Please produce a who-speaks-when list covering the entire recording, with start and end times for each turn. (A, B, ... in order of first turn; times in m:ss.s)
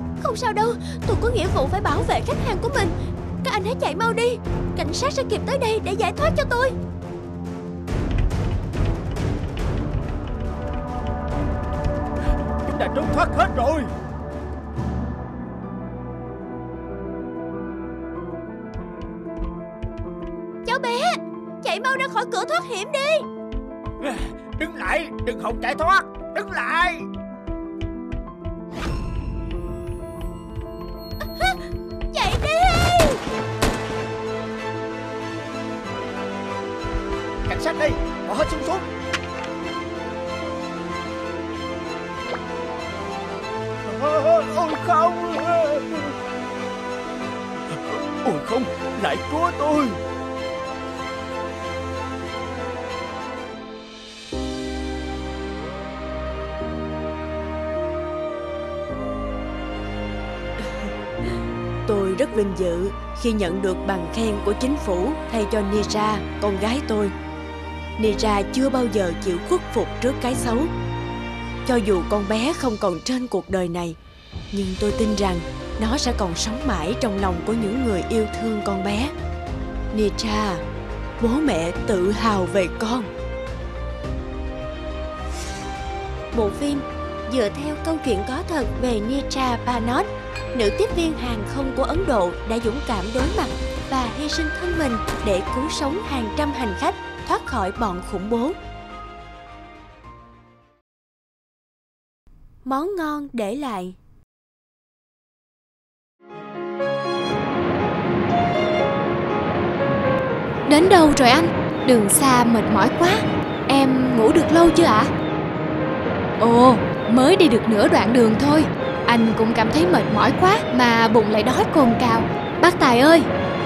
0:00.2-0:06.8 A
0:12.4-0:13.9 B
0:20.6-0:23.2 A
0:24.0-0:27.1 B
0:31.2-0:33.2 A
0:37.4-0:38.9 B
0:43.8-0:46.2 B
0:47.7-0:50.0 B
1:01.8-1:07.1 A
1:08.0-1:10.7 A
1:11.6-1:14.0 A
1:14.5-1:19.1 A
1:19.9-1:20.6 A
1:21.2-1:23.1 A
1:26.3-1:38.6 A
1:42.6-1:44.0 A
1:50.7-1:55.1 C
1:56.4-2:03.3 C